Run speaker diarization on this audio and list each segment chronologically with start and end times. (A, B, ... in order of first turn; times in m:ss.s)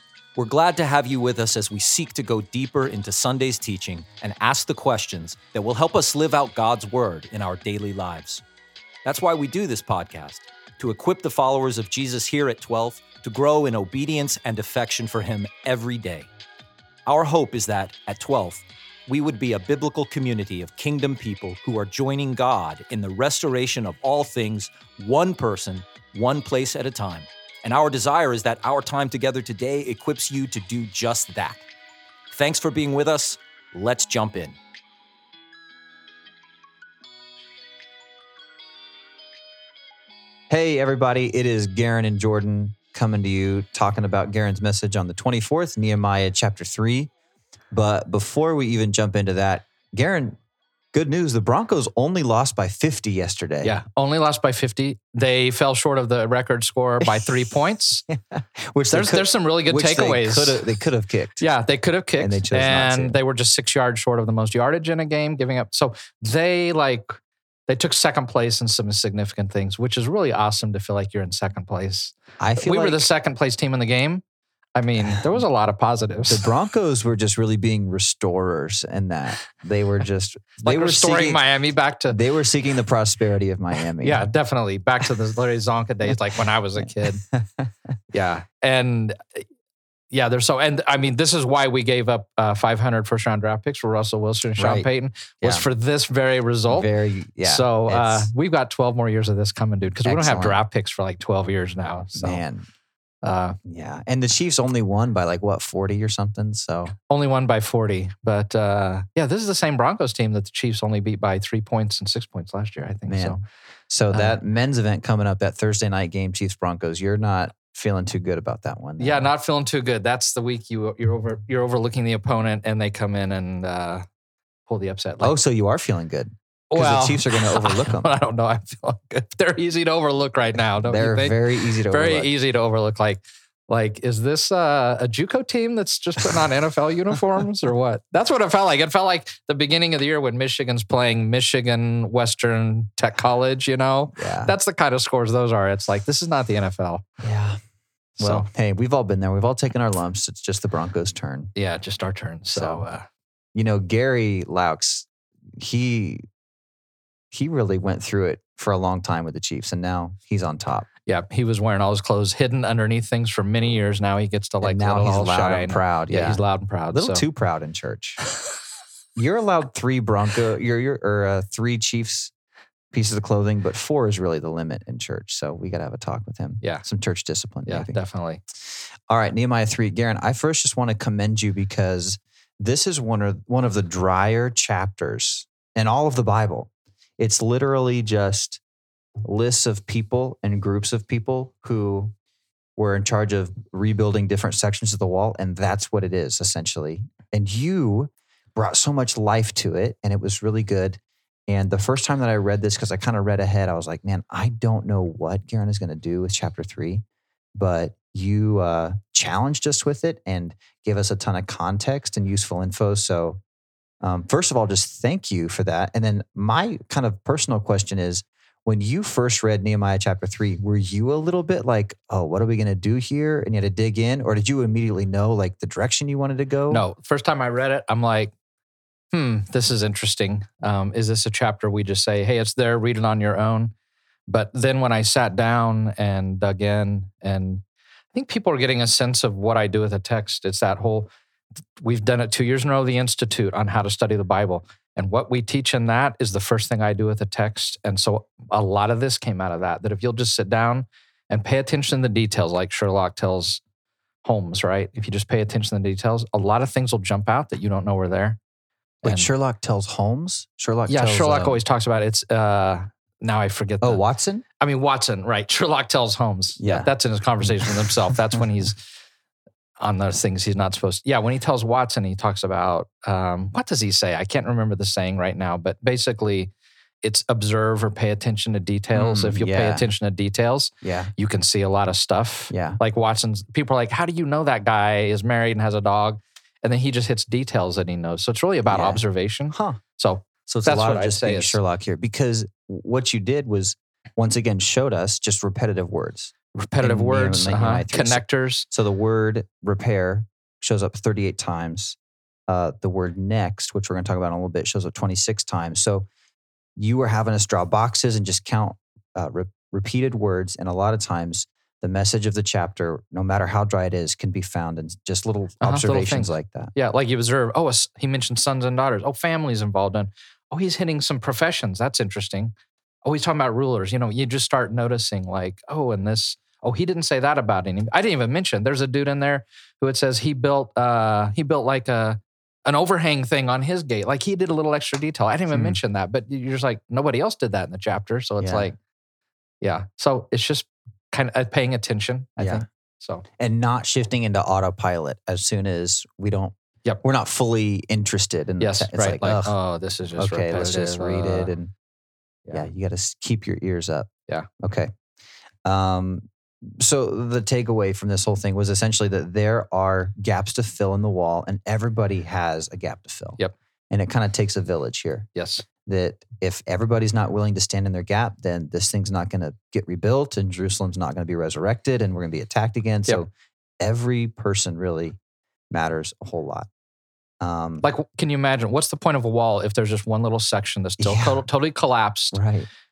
0:00.4-0:08.4 A
0:09.0-0:16.3 A
0:17.1-0:31.7 A
0:32.3-0:34.6 A
0:40.5-0:47.1 B
0:47.7-0:50.4 B
0:50.9-0:53.8 B
0:53.6-0:58.1 C
0:57.0-0:57.3 B
0:58.1-1:01.5 B
0:58.9-1:00.6 C
1:01.4-1:14.2 C
1:02.2-1:03.2 B
1:12.4-1:13.1 B
1:14.8-1:16.5 C
1:15.0-1:15.4 B
1:16.3-1:21.4 B
1:20.6-1:22.2 C
1:22.1-1:24.3 B
1:24.0-1:27.2 C
1:26.8-1:27.7 B
1:28.1-1:29.4 C
1:30.1-1:36.9 C
1:34.6-1:34.9 B
1:36.7-1:38.3 B
1:37.4-1:42.4 C
1:40.0-1:40.6 B
1:42.2-1:42.7 B
1:43.2-1:43.6 C
1:43.6-1:46.9 B
1:47.0-1:53.4 C
1:53.1-1:53.4 B
1:53.9-1:59.3 B
1:54.1-1:54.4 C
1:59.0-2:04.1 C
2:04.7-2:05.4 C
2:05.2-2:08.1 B
2:06.7-2:27.0 C
2:10.8-2:12.3 B
2:24.2-2:24.5 B
2:27.2-2:27.6 B
2:28.2-2:31.5 B
2:28.2-2:28.5 C
2:31.6-2:33.0 C
2:32.5-2:32.8 B
2:33.6-2:36.2 B
2:37.3-2:40.9 B
2:41.1-2:47.2 C
2:44.6-2:48.2 B
2:49.2-2:52.3 B
2:52.9-2:58.0 B
2:57.7-2:58.4 C
2:58.7-3:08.6 B
3:09.2-3:12.1 B
3:12.8-3:27.0 B
3:27.6-3:33.4 B
3:34.0-3:46.8 B
3:46.7-3:48.3 C
3:49.1-3:53.7 C
3:54.3-4:01.1 C
4:01.8-4:13.6 C
4:14.2-4:18.4 C
4:19.0-4:19.3 C
4:19.0-4:21.6 B
4:20.9-4:24.0 C
4:23.8-4:24.4 B
4:24.6-4:28.8 C
4:26.6-4:26.9 B
4:27.4-4:27.8 B
4:29.8-4:36.5 C
4:37.0-4:51.6 C
4:39.0-4:39.8 B
4:40.8-4:41.1 B
4:42.5-4:42.8 B
4:48.7-4:49.8 B
4:50.5-5:06.1 B
4:56.6-4:58.7 C
5:06.8-5:16.7 B
5:15.6-5:22.5 C
5:23.0-5:38.8 C
5:35.5-5:35.8 B
5:38.4-5:38.7 B
5:39.6-5:43.2 C
5:42.4-5:42.6 B
5:43.4-5:49.6 B
5:48.6-5:51.5 C
5:50.2-5:51.7 B
5:52.5-5:54.9 B
5:55.6-6:03.4 B
6:03.9-6:13.3 B
6:05.4-6:05.6 C
6:13.8-6:15.2 B
6:15.7-6:16.7 B
6:17.4-6:17.8 B
6:17.8-6:22.4 C
6:21.0-6:21.4 B
6:22.3-6:22.7 B